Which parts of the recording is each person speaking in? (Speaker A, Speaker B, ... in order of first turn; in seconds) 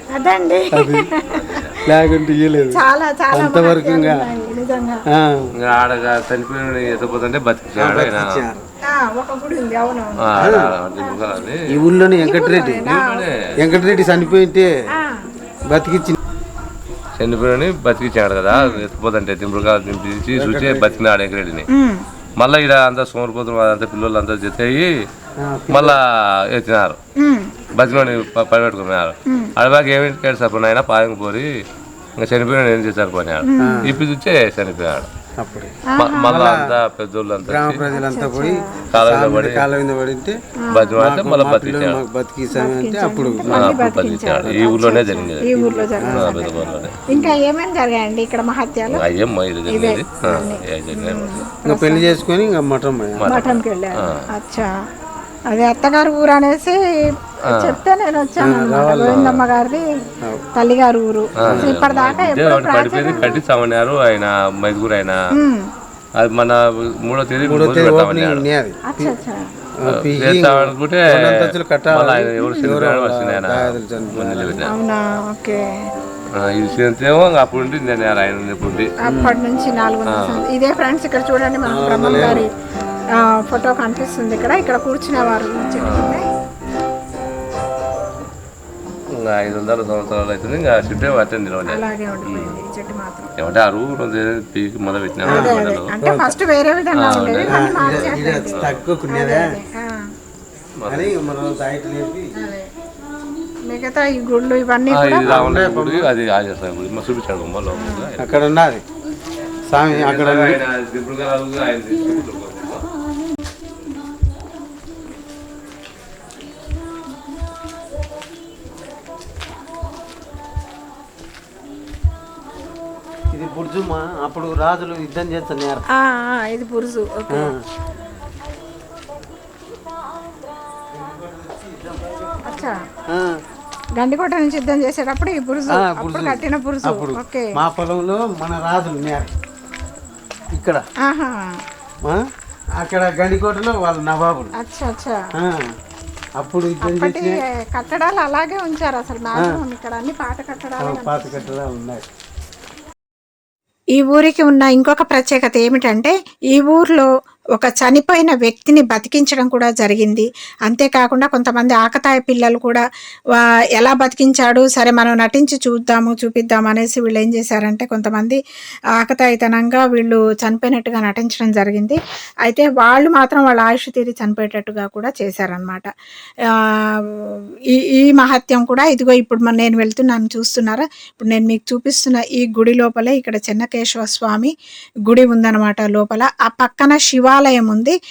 Speaker A: 0.1-1.9, 2.7-5.0, 8.9-10.3, 11.0-11.3, 12.2-13.3, 15.0-15.2, 18.5-18.8, 21.7-22.0, 27.2-27.5, 33.5-33.9, 35.9-36.4, 37.9-38.6, 40.6-41.0, 42.5-49.0, 49.7-52.2, 53.3-54.7, 55.5-56.8, 57.4-59.9, 60.6-63.4, 65.4-65.7, 68.9-69.4, 72.4-72.7, 74.7-75.6, 79.0-82.5, 83.2-86.2, 91.7-93.3, 95.3-99.9, 102.4-102.7, 103.7-105.6, 107.8-108.1, 126.0-127.5, 132.4-132.8, 134.0-137.5, 141.1-141.4, 144.6-145.2, 146.8-151.5, 154.0-162.8, 163.4-168.4, 169.0-175.9, 176.5-184.5, 185.1-188.0
Speaker B: 0.7-1.1, 1.8-2.8, 3.3-4.2, 5.1-5.5, 7.8-8.7, 10.4-10.7, 11.7-12.9, 13.6-14.7, 15.7-16.2, 20.4-21.0, 25.4-26.0, 33.6-34.0, 35.4-36.7, 37.5-40.4, 41.0-43.8, 45.5-46.3, 47.1-47.4, 51.7-53.5, 58.4-59.4, 61.5-61.8, 67.4-69.2, 69.8-74.6, 79.0-79.4, 81.6-82.5, 95.3-96.3, 97.5-99.5, 100.9-102.3, 105.2-106.1, 108.2-108.8, 109.7-110.6, 123.3-125.9, 127.3-127.6, 130.9-132.2, 133.1-133.4, 135.7-139.3, 140.5-140.8, 142.8-144.5, 145.4-145.7, 146.4-147.3, 150.8-152.0
Speaker C: 5.6-8.3, 10.2-11.8, 12.8-13.5, 17.2-21.7, 22.4-24.9, 25.7-27.0, 27.8-31.5, 32.2-35.1, 36.0-37.9, 38.9-39.6, 40.7-42.0, 43.5-45.5, 46.0-47.0, 48.9-51.5, 53.2-54.2, 59.1-59.5, 61.4-65.2, 66.2-68.5, 69.9-74.7, 76.4-78.9, 80.1-80.5, 85.9-86.2, 89.2-92.6, 93.4-95.9, 97.0-98.8, 100.8-101.2, 104.9-108.4, 109.9-112.8